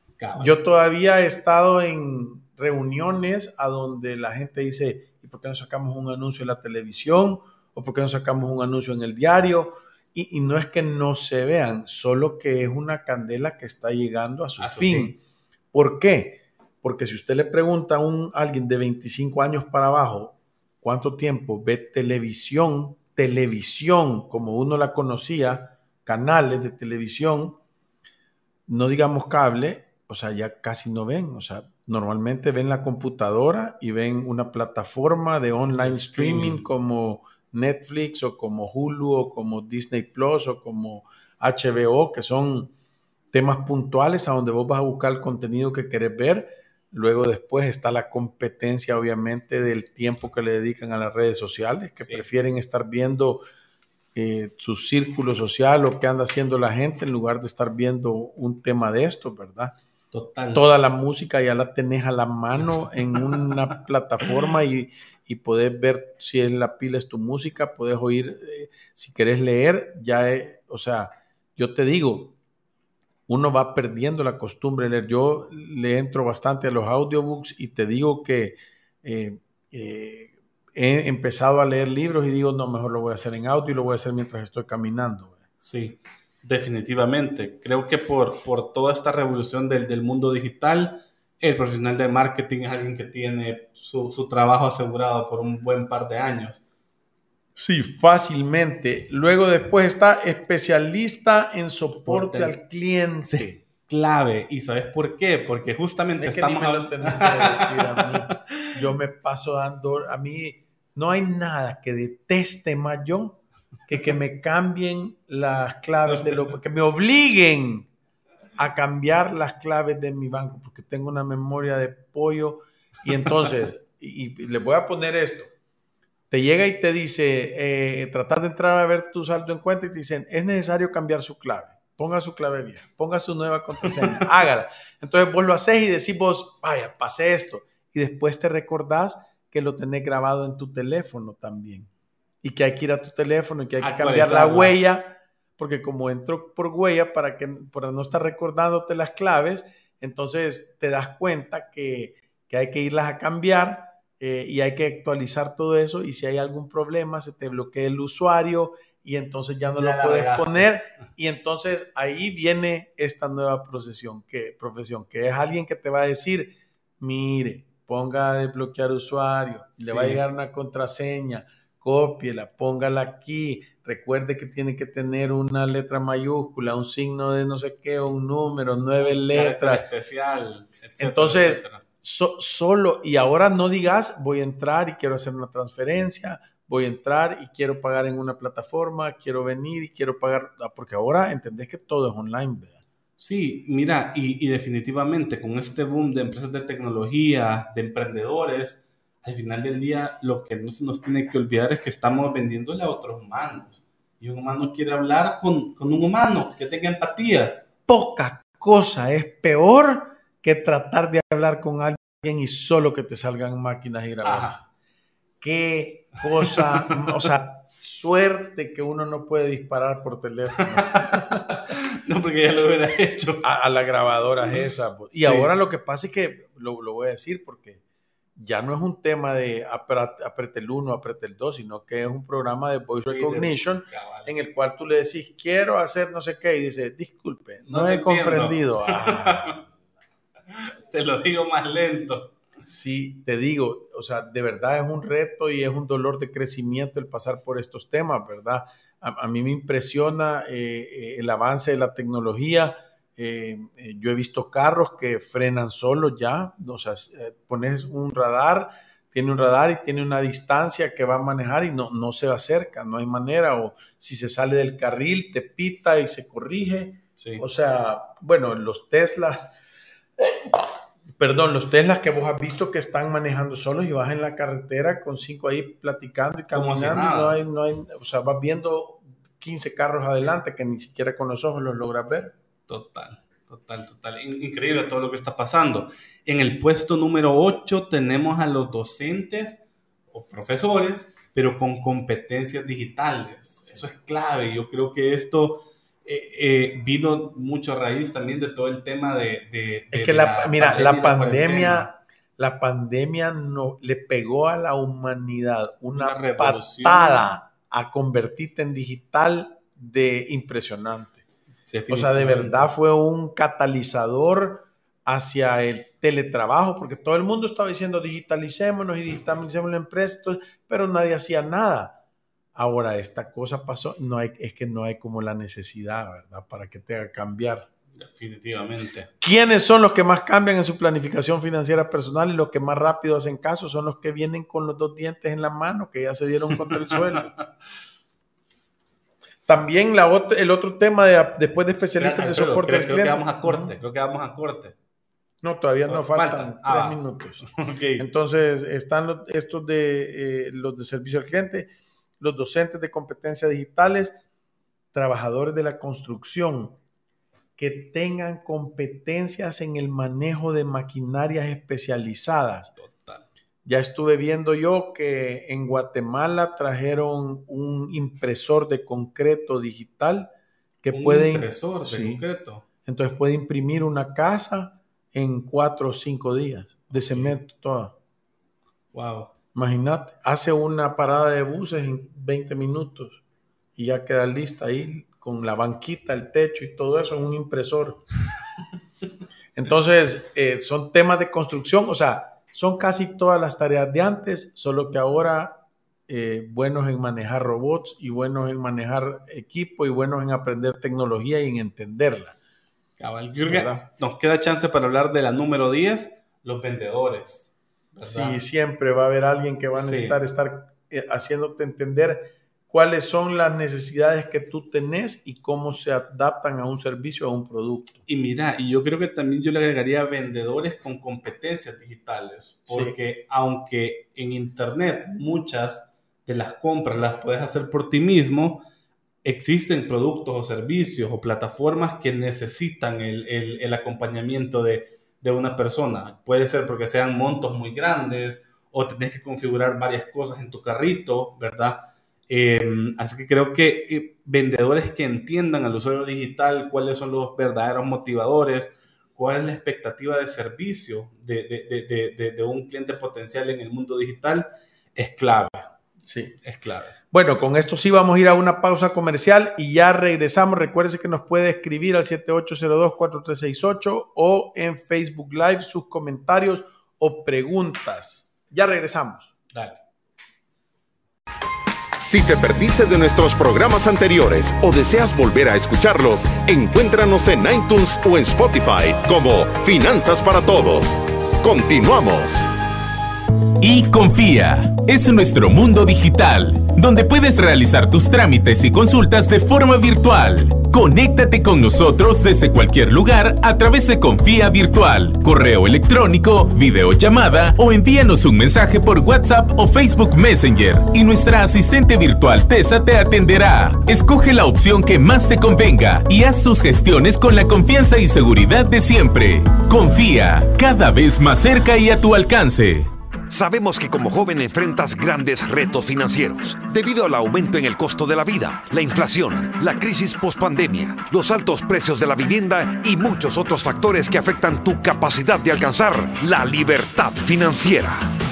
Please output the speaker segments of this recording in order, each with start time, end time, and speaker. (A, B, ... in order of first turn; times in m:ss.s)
0:00.2-0:00.6 A
0:00.4-0:15.2 B
0:14.6-0:15.2 A
0:15.7-0:27.6 B
0:28.7-0:42.7 B
0:35.8-0:36.7 A
0:43.3-0:53.4 B
0:52.0-0:52.3 A
0:54.2-0:59.8 B
1:00.1-1:00.7 A
1:00.5-1:12.4 B
1:02.6-1:03.6 A
1:13.3-1:25.4 B
1:25.6-1:36.6 A
1:37.6-1:43.6 B
1:42.1-1:42.6 A
1:43.3-1:48.7 A
1:46.2-1:57.9 B
1:56.1-1:56.6 A
1:58.6-2:05.5 B
2:06.3-2:21.9 B
2:22.4-2:59.8 B
2:23.8-2:24.8 A
2:39.8-2:40.8 A
2:49.8-2:50.2 A
2:59.0-3:01.8 A
3:01.0-3:12.8 B
3:13.2-3:27.6 A
3:27.9-3:34.6 B
3:34.2-3:34.6 A
3:35.4-3:41.4 B
3:36.4-3:37.3 A
3:40.6-3:43.5 A
3:43.4-3:47.8 B
3:45.1-3:45.5 A
3:48.4-3:59.7 B
3:53.0-3:54.3 A
3:57.7-3:59.6 A
4:00.5-4:02.4 A
4:02.6-4:29.5 B
4:27.2-4:27.4 A
4:30.2-4:42.3 B
4:36.5-4:37.4 A
4:42.7-4:49.6 A
4:50.1-5:01.9 A
4:59.9-5:11.2 B
5:06.0-5:07.3 A
5:11.7-5:12.7 A
5:11.9-5:22.0 B
5:22.6-5:27.7 B
5:28.0-5:29.1 A
5:29.2-5:37.3 B
5:36.7-5:37.1 A
5:39.5-5:43.8 B
5:42.0-5:44.8 A
5:45.4-5:47.5 B
5:45.9-5:48.1 A
5:48.0-5:54.2 B
5:54.9-5:56.8 B
5:57.6-6:02.7 B
6:02.8-6:03.3 A
6:03.6-6:10.3 B
6:10.8-6:12.2 B
6:10.9-6:12.6 A
6:12.8-6:17.9 B
6:16.9-6:17.4 A
6:18.9-6:19.3 A
6:19.5-6:23.2 B
6:23.8-6:28.0 B
6:29.6-6:42.4 B
6:43.0-6:48.4 A
6:43.4-6:43.8 B
6:48.0-6:58.0 B
6:49.8-6:50.2 A
6:58.1-7:08.7 A
7:02.7-7:03.0 B
7:09.2-7:35.7 A
7:36.0-7:36.4 B
7:36.4-7:37.0 A
7:37.1-7:49.3 B
7:49.5-7:49.8 A
7:52.0-8:02.5 C
8:03.6-8:32.9 D
8:33.3-8:48.1 E